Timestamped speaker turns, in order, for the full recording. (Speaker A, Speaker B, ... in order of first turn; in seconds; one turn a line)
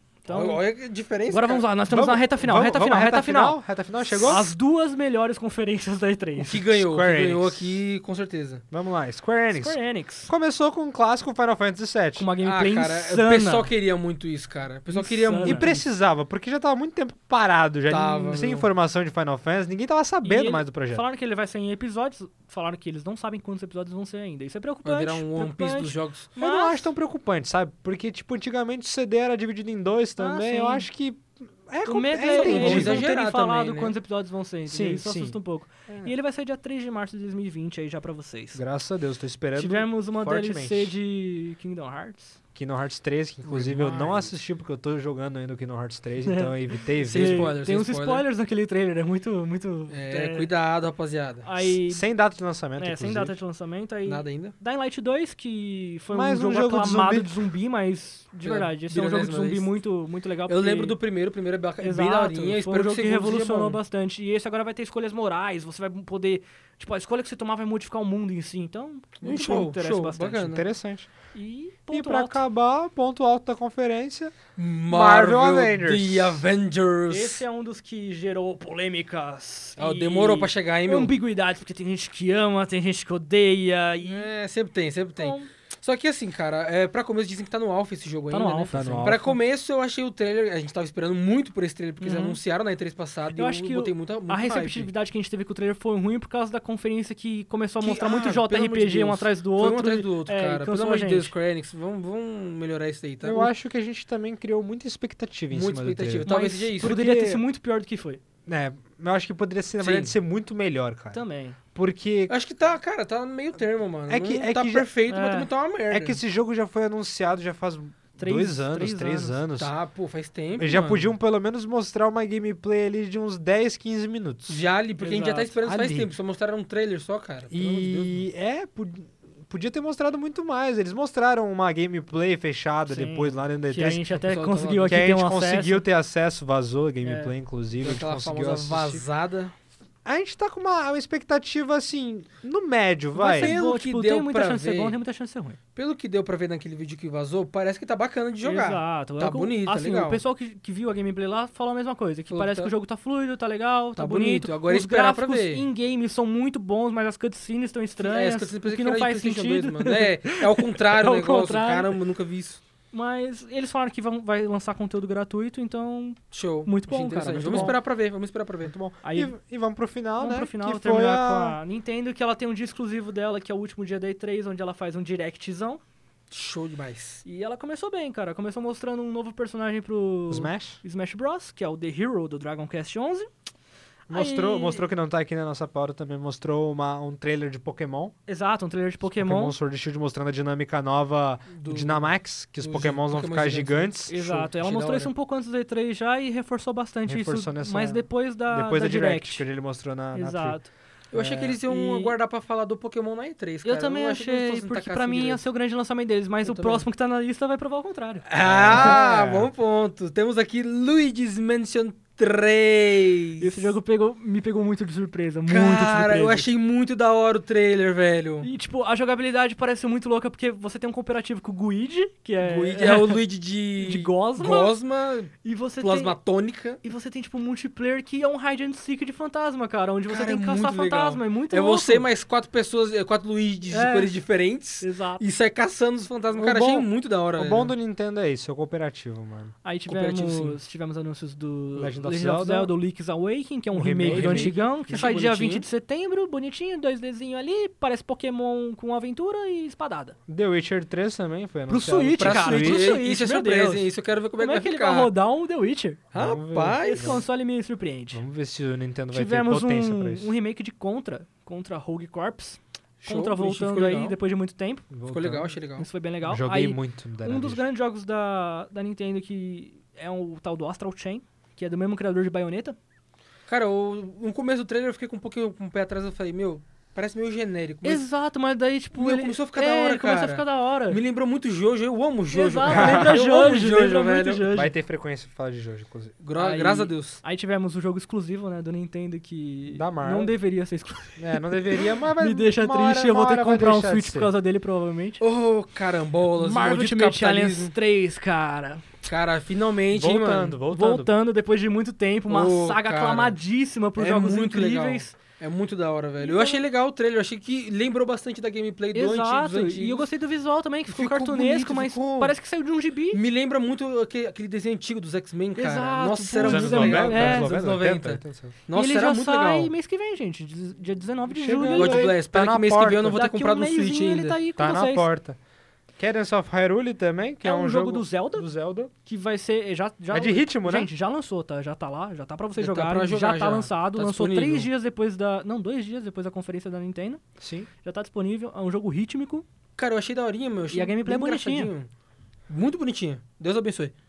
Speaker A: 0.2-0.6
Speaker B: 0.3-1.6
Speaker A: 1.3-3.6
Speaker C: 1.9-4.5
Speaker A: 4.2-6.6
Speaker B: 6.4-8.6
Speaker C: 6.7-7.8
Speaker C: 8.7-12.3
Speaker A: 9.5-10.3
Speaker A: 12.2-13.7
Speaker B: 12.4-15.7
Speaker A: 14.9-15.8
Speaker C: 15.4-21.0
Speaker B: 17.9-18.7
Speaker A: 20.2-26.9
Speaker B: 24.9-26.3
Speaker C: 26.4-33.1
Speaker A: 30.2-30.9
Speaker A: 31.9-38.6
Speaker B: 32.3-34.0
Speaker C: 34.7-35.4
Speaker C: 38.5-40.9
Speaker A: 39.6-42.4
Speaker C: 42.5-47.5
Speaker B: 43.5-44.3
Speaker A: 46.2-50.5
Speaker B: 47.0-48.2
Speaker B: 49.9-51.5
Speaker A: 51.4-52.1
Speaker C: 51.9-53.3
Speaker A: 52.8-61.0
Speaker B: 54.1-54.5
Speaker C: 56.1-57.3
Speaker B: 58.4-59.7
Speaker B: 60.5-63.8
Speaker A: 61.8-70.5
Speaker B: 69.2-70.7
Speaker C: 70.5-71.1
Speaker A: 71.3-72.4
Speaker C: 71.9-74.4
Speaker B: 74.6-77.4
Speaker C: 74.9-76.4
Speaker A: 77.1-84.3
Speaker B: 79.8-81.1
Speaker B: 84.0-94.9
Speaker A: 85.2-85.5
Speaker A: 88.3-89.3
Speaker C: 88.7-89.3
Speaker A: 92.0-92.4
Speaker A: 93.3-101.3
Speaker B: 97.8-103.5
Speaker C: 103.2-106.3
Speaker B: 105.5-107.4
Speaker A: 106.3-108.2
Speaker C: 108.5-111.2
Speaker B: 109.8-110.2
Speaker A: 111.1-111.6
Speaker C: 111.8-112.3
Speaker B: 112.3-116.2
Speaker C: 114.1-114.9
Speaker A: 115.1-115.5
Speaker C: 115.9-119.7
Speaker A: 118.2-119.4
Speaker B: 119.6-121.1
Speaker C: 120.6-124.6
Speaker B: 124.5-128.2
Speaker A: 125.0-125.5
Speaker C: 125.6-126.1
Speaker C: 127.5-134.0
Speaker A: 132.9-135.8
Speaker B: 134.2-135.0
Speaker C: 134.9-139.0
Speaker A: 137.0-137.3
Speaker B: 137.8-139.5
Speaker C: 140.1-143.6
Speaker A: 143.2-145.6
Speaker B: 143.3-145.0
Speaker B: 145.8-150.2
Speaker A: 148.4-161.9
Speaker B: 152.3-152.7
Speaker B: 154.0-155.7
Speaker B: 158.0-162.6
Speaker A: 162.9-167.8
Speaker B: 166.3-168.7
Speaker C: 167.5-167.8
Speaker C: 168.7-171.6
Speaker A: 169.0-169.3
Speaker A: 170.2-175.8
Speaker B: 176.3-177.2
Speaker A: 177.2-183.3
Speaker C: 180.3-180.8
Speaker C: 184.1-188.1
Speaker A: 184.1-184.8
Speaker A: 188.3-189.6
Speaker C: 189.1-194.2
Speaker B: 191.6-195.1
Speaker A: 194.1-199.5
Speaker C: 197.1-200.6
Speaker A: 200.1-200.7
Speaker B: 201.1-205.4
Speaker C: 201.1-201.6
Speaker A: 201.7-202.1
Speaker A: 203.7-208.2
Speaker B: 206.4-206.9
Speaker B: 208.3-213.7
Speaker C: 208.4-209.5
Speaker A: 213.4-216.5
Speaker B: 215.5-218.5
Speaker A: 218.4-223.2
Speaker B: 222.4-226.8
Speaker A: 223.8-224.7
Speaker A: 225.4-226.2
Speaker A: 226.8-232.1
Speaker B: 230.1-237.7
Speaker A: 233.7-234.2
Speaker A: 234.8-235.2
Speaker C: 236.4-239.5
Speaker A: 239.6-250.2
Speaker B: 239.9-240.6
Speaker C: 241.8-242.8
Speaker C: 243.7-244.6
Speaker B: 244.1-245.7
Speaker C: 250.3-252.9
Speaker A: 251.7-256.0
Speaker B: 252.2-255.2
Speaker B: 256.1-257.2
Speaker C: 256.1-257.2
Speaker A: 256.8-258.2
Speaker C: 258.1-260.3
Speaker A: 259.1-264.9
Speaker B: 263.0-264.2
Speaker C: 264.9-265.5
Speaker B: 265.1-265.9
Speaker A: 265.8-272.8
Speaker C: 266.3-267.6
Speaker B: 273.5-278.1
Speaker A: 277.8-281.0
Speaker B: 278.9-284.5
Speaker A: 282.3-284.7
Speaker C: 282.7-283.2
Speaker C: 284.5-286.1
Speaker B: 286.2-287.2
Speaker A: 286.4-295.2
Speaker C: 289.7-290.3
Speaker C: 291.2-294.3
Speaker B: 295.2-297.8
Speaker A: 296.4-298.9
Speaker B: 299.1-300.6
Speaker C: 299.9-301.1
Speaker A: 300.7-305.2
Speaker B: 302.3-303.4
Speaker B: 304.0-310.1
Speaker A: 306.2-306.6
Speaker A: 308.9-313.2
Speaker B: 310.9-312.4
Speaker B: 313.1-319.7
Speaker A: 315.6-317.5
Speaker C: 316.4-318.5
Speaker A: 318.7-322.1
Speaker C: 321.3-323.2
Speaker B: 321.7-324.4
Speaker A: 323.1-325.1
Speaker C: 324.6-325.4
Speaker C: 326.0-328.9
Speaker A: 327.4-328.5
Speaker A: 329.1-337.2
Speaker C: 330.1-330.9
Speaker B: 332.6-334.7
Speaker C: 337.4-337.7
Speaker A: 337.8-339.5
Speaker B: 339.8-341.9
Speaker A: 340.7-341.7
Speaker B: 342.5-343.9